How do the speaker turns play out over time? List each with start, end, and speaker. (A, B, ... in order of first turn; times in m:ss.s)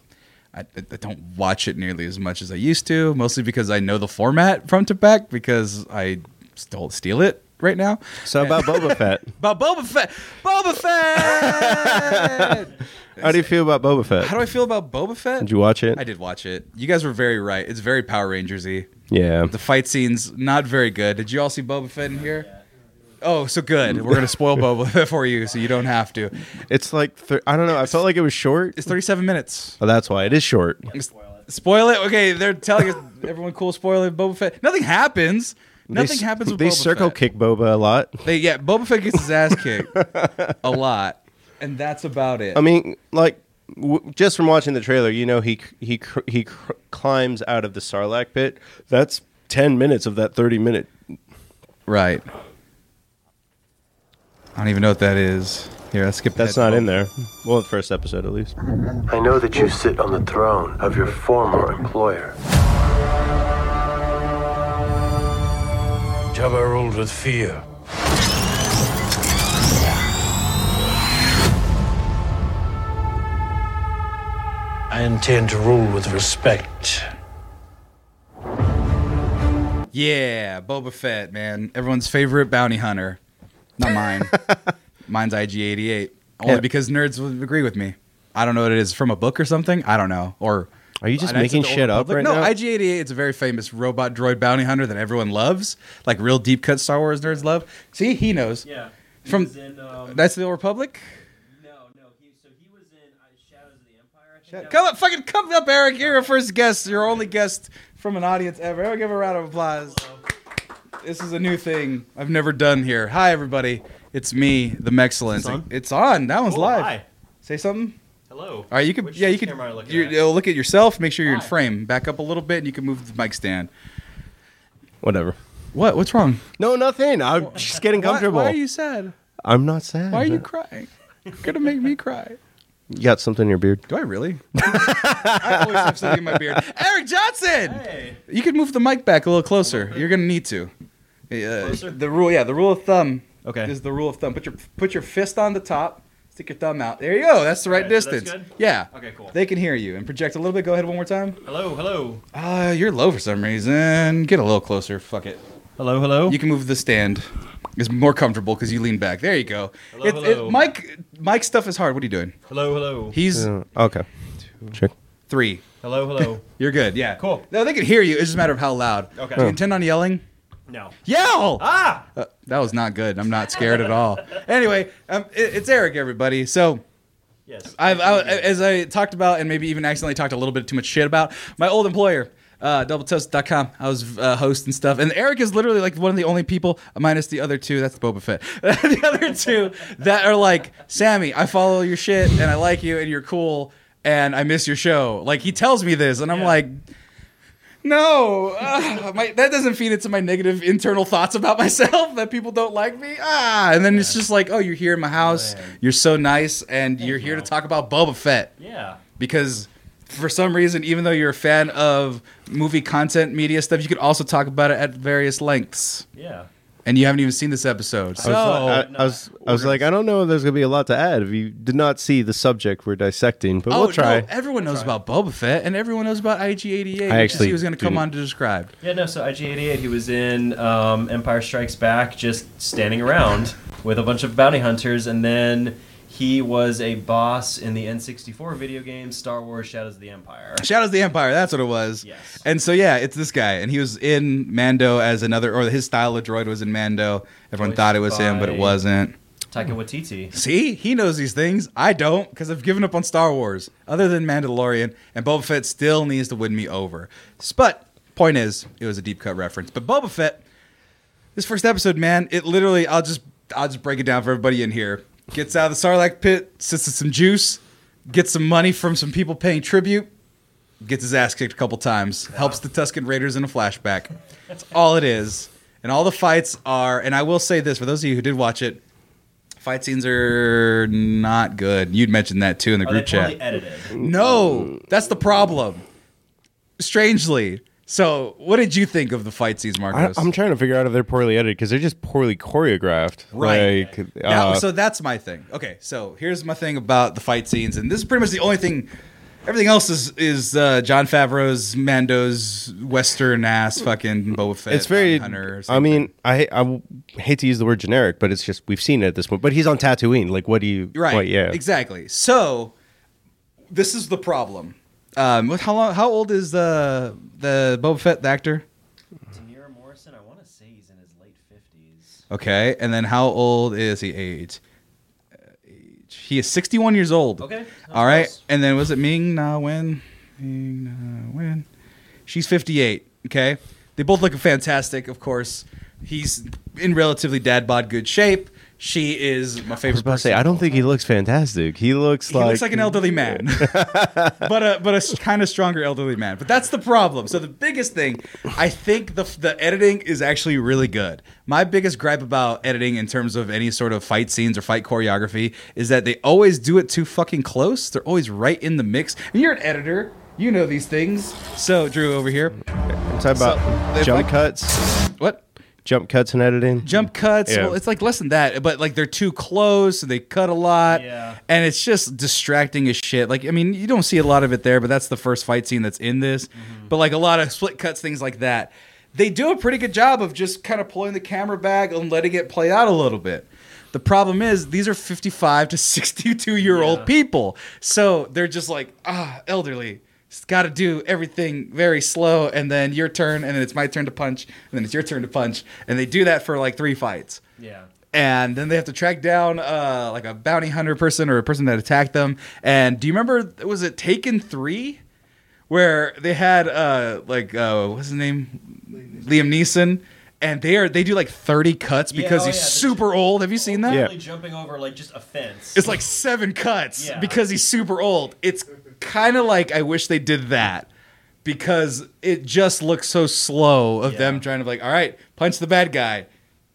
0:00.5-0:13.5 A
0:08.2-0:09.3 B
0:11.2-0:12.6 B
0:13.2-0:14.4 B
0:14.2-0:18.9 A
0:15.4-0:16.0 B
0:19.1-0:19.5 B
0:19.5-0:22.5 A
0:23.2-0:26.4 A
0:26.6-0:28.9 B
0:28.8-0:29.8 A
0:29.8-0:30.9 B
0:30.9-0:31.4 C
0:30.9-0:37.2 A
0:35.9-0:38.3 B
0:38.2-0:40.1 A
0:39.9-0:40.6 B
0:40.6-0:42.6 A
0:42.5-0:51.0 B
0:51.9-0:52.2 A
0:54.6-0:56.9 A
0:56.4-0:58.5 B
0:59.1-1:02.3 D
1:06.3-1:07.6 E
1:14.9-1:17.1 E
1:19.9-1:23.2 A
1:23.8-1:24.4 A
1:24.1-1:24.5 B
1:25.1-1:38.6 A
1:31.0-1:32.5 B
1:38.6-1:40.2 C
1:39.2-1:39.5 A
1:40.0-1:41.0 A
1:41.5-1:44.8 C
1:44.5-1:50.0 A
1:46.0-1:46.3 C
1:51.0-1:58.0 A
1:55.3-1:55.7 C
1:56.5-1:57.0 C
1:58.3-2:00.2 C
1:58.7-2:03.7 A
2:01.2-2:01.5 C
2:05.0-2:05.4 B
2:05.7-2:06.4 A
2:06.6-2:08.6 B
2:08.0-2:09.1 A
2:09.4-2:10.4 B
2:10.1-2:12.4 A
2:12.9-2:13.8 B
2:13.9-2:20.7 A
2:14.6-2:16.6 B
2:17.6-2:18.2 C
2:19.6-2:20.1 C
2:21.3-2:31.4 A
2:21.6-2:22.0 C
2:23.4-2:23.7 C
2:27.7-2:29.3 C
2:31.4-2:32.2 C
2:32.3-2:35.4 A
2:35.8-2:36.4 C
2:36.3-2:37.2 A
2:37.8-2:42.3 A
2:39.9-2:40.6 C
2:42.5-2:43.2 C
2:43.1-2:43.5 A
2:43.3-2:44.0 B
2:44.7-2:44.9 B
2:45.3-2:45.6 A
2:45.8-2:46.4 C
2:46.6-2:50.2 A
2:47.2-2:47.4 C
2:49.2-2:49.5 C
2:50.7-2:50.9 C
2:51.0-2:51.6 A
2:51.6-2:52.0 C
2:52.2-2:56.8 A
2:57.5-2:58.6 C
2:57.8-3:16.8 A
3:16.3-3:16.6 C
3:17.8-3:28.5 A
3:23.9-3:24.2 C
3:25.2-3:25.8 C
3:27.0-3:27.5 C
3:28.6-3:29.0 C
3:29.2-3:36.0 A
3:36.2-3:36.5 C
3:36.8-3:38.9 A
3:38.2-3:39.2 C
3:38.2-3:44.3 B
3:39.4-3:39.8 A
3:43.7-3:48.7 A
3:44.6-3:44.9 C
3:47.1-3:48.0 B
3:47.2-3:47.5 C
3:48.8-4:00.6 C
4:00.6-4:09.2 A
4:02.0-4:02.4 C
4:07.6-4:08.8 C
4:09.5-4:10.3 C
4:10.3-4:20.4 A
4:21.4-4:30.1 A
4:30.8-4:34.1 A
4:34.7-4:38.8 A
4:39.6-4:43.4 A
4:42.8-4:43.9 C
4:43.9-4:45.8 A
4:44.0-4:44.7 B
4:46.8-4:50.3 A
4:49.9-4:54.6 B
4:53.3-4:58.9 A
4:53.4-4:53.9 C
4:59.4-5:06.1 A
5:04.7-5:11.6 B
5:10.9-5:12.7 A
5:13.7-5:18.6 A
5:19.3-5:22.2 C
5:22.3-5:24.6 A
5:25.7-5:31.6 A
5:27.4-5:28.4 C
5:32.3-5:40.8 A
5:39.9-5:44.3 B
5:42.3-6:02.6 A
6:02.9-6:04.8 B
6:03.3-6:04.3 A
6:05.8-6:07.8 B
6:06.8-6:37.4 A
6:10.9-6:11.4 C
6:16.6-6:16.9 C
6:26.6-6:27.1 C
6:37.6-6:37.9 C
6:38.1-6:45.0 A
6:45.7-6:54.0 A
6:52.1-6:55.9 C
6:53.9-6:54.1 B
6:55.7-7:00.9 A
6:57.0-6:57.4 C
7:01.4-7:06.3 A
7:04.0-7:04.4 C